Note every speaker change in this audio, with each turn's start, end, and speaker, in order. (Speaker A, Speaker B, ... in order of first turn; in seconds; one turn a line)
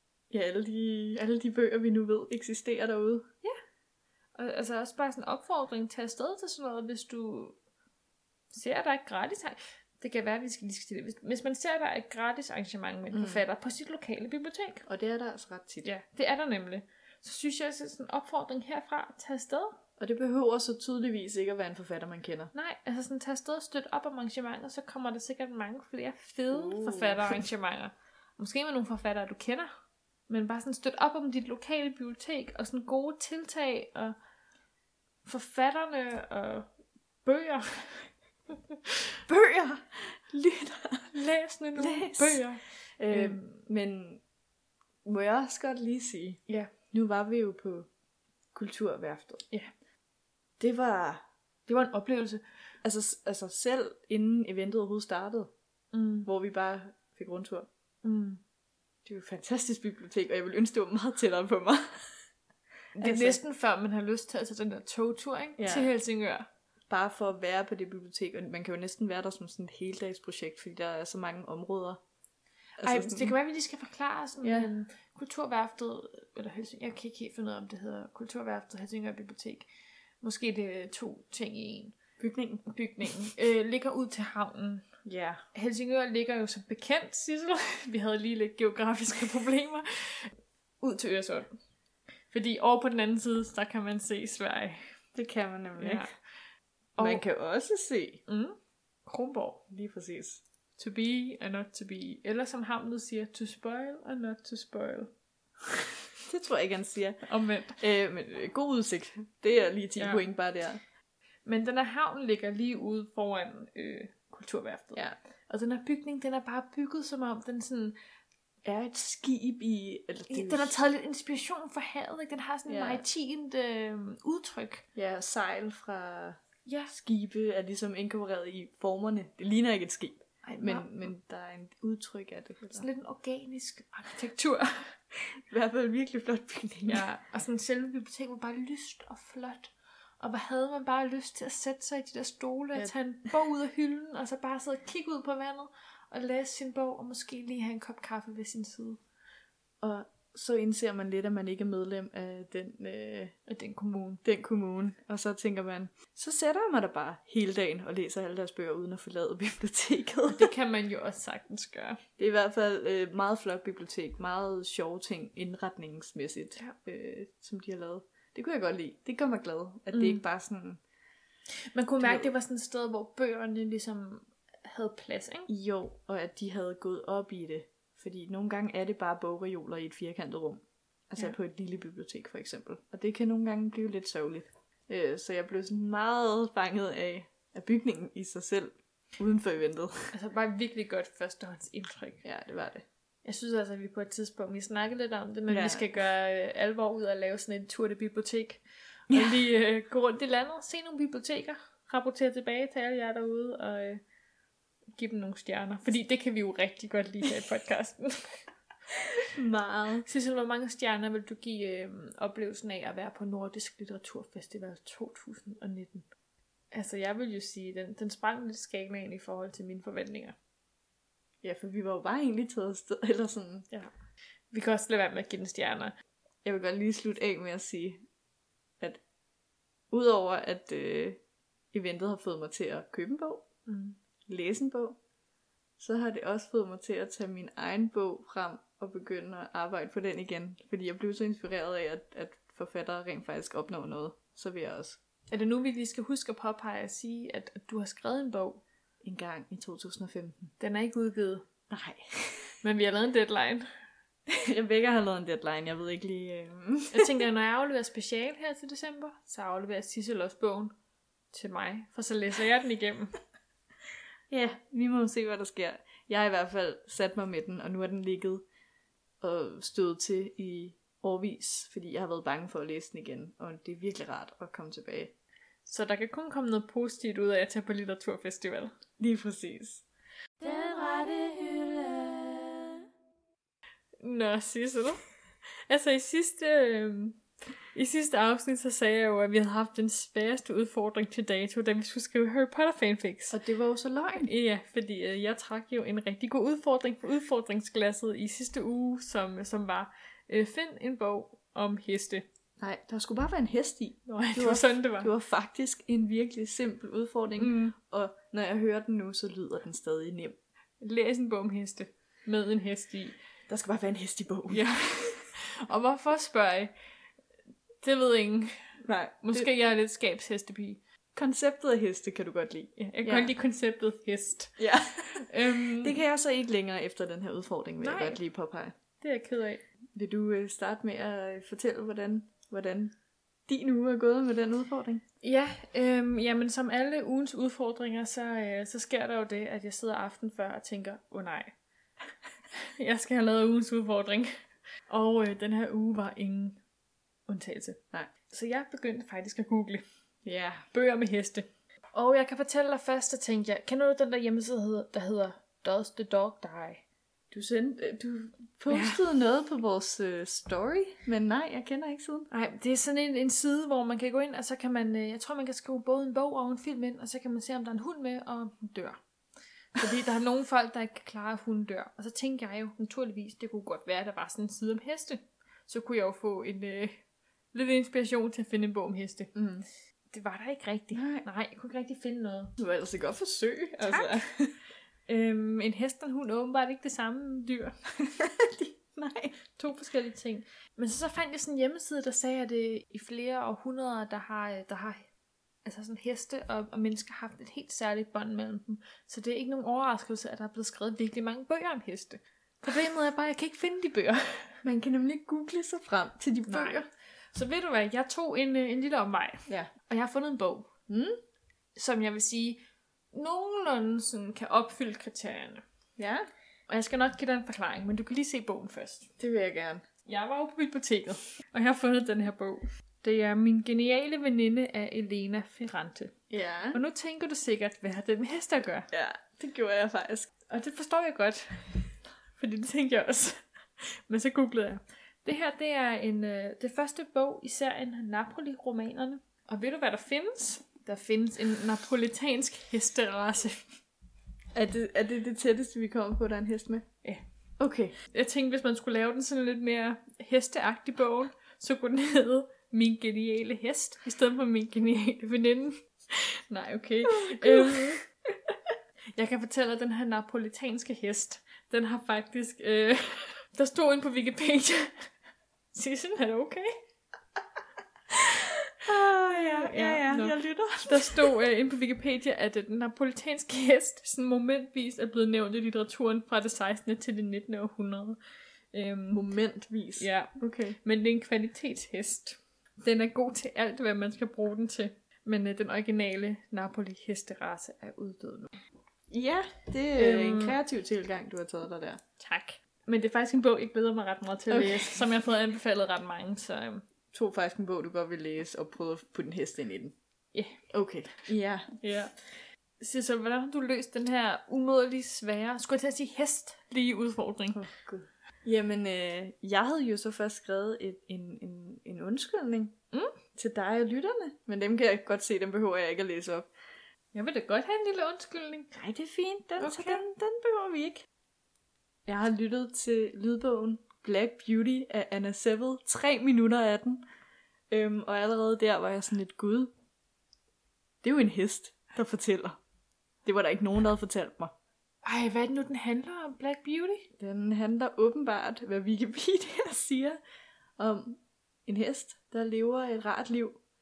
Speaker A: 0.3-3.3
Speaker B: 4.3-7.5
Speaker B: 8.5-14.8
Speaker A: 13.1-13.4
Speaker A: 14.8-15.9
Speaker B: 15.8-19.8
Speaker A: 20.0-22.5
Speaker B: 22.5-29.7
Speaker A: 26.5-27.4
Speaker B: 30.3-34.1
Speaker B: 35.2-36.7
Speaker B: 37.2-39.0
Speaker A: 39.3-41.1
Speaker B: 41.1-43.6
Speaker A: 41.8-42.5
Speaker A: 43.0-44.2
Speaker A: 45.0-46.4
Speaker A: 46.9-47.9
Speaker A: 48.5-49.4
Speaker A: 50.6-51.2
Speaker B: 51.7-52.4
Speaker A: 52.8-55.5
Speaker B: 55.9-56.3
Speaker A: 56.2-57.7
Speaker B: 58.0-58.4
Speaker A: 59.0-62.2
Speaker B: 63.0-66.5
Speaker A: 63.0-63.4
Speaker A: 65.6-65.9
Speaker A: 66.9-72.0
Speaker A: 72.8-73.3
Speaker B: 72.8-79.7
Speaker A: 74.4-74.7
Speaker B: 80.2-82.0
Speaker A: 82.2-82.6
Speaker B: 82.7-84.9
Speaker A: 85.0-85.4
Speaker B: 85.5-91.5
Speaker B: 92.3-94.9
Speaker A: 95.1-96.1
Speaker B: 95.8-96.1
Speaker B: 97.0-97.2
Speaker A: 97.0-98.2
Speaker B: 98.3-99.6
Speaker A: 99.7-100.4
Speaker B: 100.8-105.1
Speaker A: 106.2-107.2
Speaker B: 107.2-107.8
Speaker A: 107.8-110.8
Speaker B: 110.0-110.2
Speaker B: 111.5-118.0
Speaker A: 118.6-120.7
Speaker B: 120.3-124.8
Speaker A: 122.7-123.0
Speaker A: 124.9-132.8
Speaker B: 126.7-126.9
Speaker B: 130.4-131.1
Speaker B: 132.7-135.0
Speaker A: 135.3-137.0
Speaker B: 136.8-149.0
Speaker A: 149.8-153.3
Speaker B: 153.5-154.2
Speaker A: 154.2-160.5
Speaker B: 160.3-162.0
Speaker A: 162.2-170.8
Speaker B: 169.9-170.2
Speaker B: 171.7-175.5
Speaker A: 172.0-172.3
Speaker A: 175.5-190.1
Speaker B: 190.1-192.2
Speaker A: 192.2-192.8
Speaker B: 193.2-204.0
Speaker A: 195.5-195.8
Speaker A: 199.1-199.4
Speaker B: 204.9-208.5
Speaker A: 209.2-210.1
Speaker B: 210.0-216.1
Speaker B: 216.7-220.3
Speaker A: 221.4-223.7
Speaker B: 224.5-225.9
Speaker A: 226.4-228.0
Speaker A: 229.9-231.2
Speaker A: 231.7-233.4
Speaker B: 233.7-234.0
Speaker A: 234.3-235.0
Speaker A: 235.8-245.0
Speaker B: 245.3-248.6
Speaker A: 249.0-250.5
Speaker B: 250.6-251.4
Speaker A: 251.7-252.6
Speaker B: 252.6-253.7
Speaker A: 254.3-257.3
Speaker B: 256.9-260.7
Speaker B: 261.3-263.1
Speaker A: 264.3-268.4
Speaker A: 269.2-275.1
Speaker B: 275.6-278.7
Speaker A: 279.0-279.8
Speaker C: 280.4-282.8
Speaker B: 284.0-285.0
Speaker B: 285.7-287.2
Speaker B: 287.7-293.4
Speaker A: 293.3-294.3
Speaker B: 294.2-302.2
Speaker A: 302.6-310.4
Speaker B: 304.1-305.1
Speaker B: 307.4-307.7
Speaker B: 310.8-313.2
Speaker A: 313.5-315.3
Speaker B: 314.5-316.7
Speaker B: 317.8-320.8
Speaker A: 318.8-319.5
Speaker A: 321.1-323.3
Speaker B: 322.8-326.0
Speaker A: 324.6-328.7
Speaker B: 327.8-328.2
Speaker B: 329.0-329.6
Speaker A: 329.9-332.9
Speaker A: 333.5-335.0
Speaker B: 335.2-341.5
Speaker B: 342.5-344.3
Speaker B: 344.9-346.6
Speaker B: 347.3-349.8
Speaker A: 350.2-350.6
Speaker B: 350.7-356.8
Speaker A: 357.3-362.3
Speaker B: 358.7-359.0
Speaker B: 362.3-369.0
Speaker B: 369.7-377.0
Speaker B: 377.5-379.3
Speaker A: 379.3-379.6
Speaker B: 380.1-382.5
Speaker A: 380.9-381.2
Speaker A: 382.6-384.6
Speaker B: 383.8-384.1
Speaker B: 385.1-387.8
Speaker A: 388.0-389.4
Speaker B: 389.5-395.1
Speaker B: 395.6-404.6
Speaker A: 404.6-406.9
Speaker B: 406.5-410.7
Speaker A: 410.9-411.2
Speaker B: 411.8-412.6
Speaker B: 413.1-415.6
Speaker A: 416.0-416.3
Speaker B: 416.7-419.1
Speaker A: 419.2-419.8
Speaker B: 420.1-426.1
Speaker A: 426.3-426.8
Speaker B: 426.7-428.9
Speaker A: 428.9-430.3
Speaker B: 430.5-443.6
Speaker A: 444.5-446.9
Speaker A: 447.6-447.9
Speaker B: 448.1-458.0
Speaker A: 457.0-458.0
Speaker B: 459.1-465.1
Speaker B: 465.7-466.7
Speaker B: 468.2-478.2
Speaker A: 468.8-471.4
Speaker B: 478.7-479.2
Speaker A: 479.1-480.8
Speaker B: 480.0-488.5
Speaker A: 489.1-492.0
Speaker B: 489.9-490.6
Speaker B: 492.2-496.9
Speaker A: 494.5-495.0
Speaker A: 497.1-499.9
Speaker B: 500.3-500.6
Speaker A: 500.7-501.7
Speaker B: 501.8-502.1
Speaker B: 502.8-507.6
Speaker A: 507.5-512.7
Speaker A: 513.3-516.5
Speaker B: 517.1-518.7
Speaker A: 518.8-521.1
Speaker B: 519.6-520.0
Speaker A: 522.0-527.0
Speaker A: 527.7-529.7
Speaker A: 531.0-532.6
Speaker A: 533.2-534.5
Speaker B: 535.0-537.1
Speaker A: 537.2-540.2
Speaker A: 540.8-543.6